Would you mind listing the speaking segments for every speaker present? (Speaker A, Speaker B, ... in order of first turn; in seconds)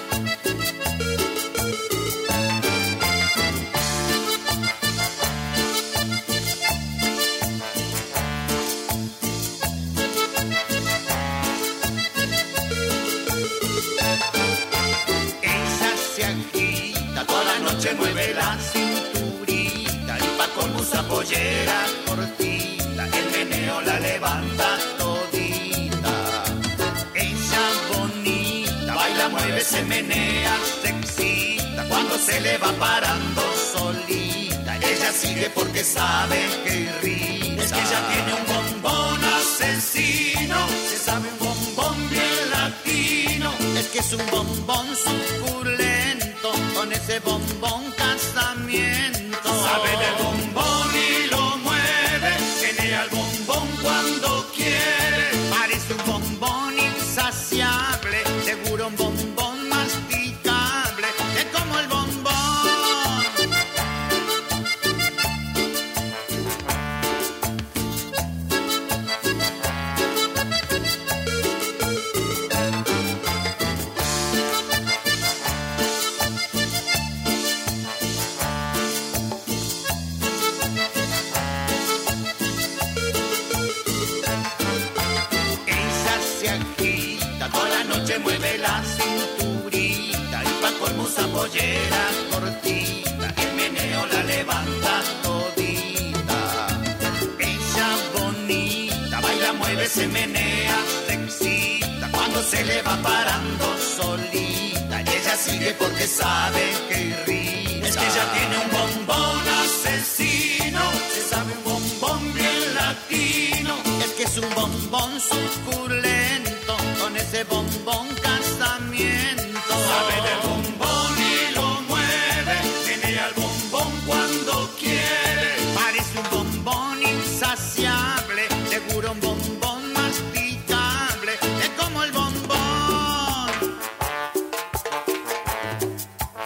Speaker A: 15.4-26.6, 27.1-63.4, 85.7-96.8, 97.4-133.6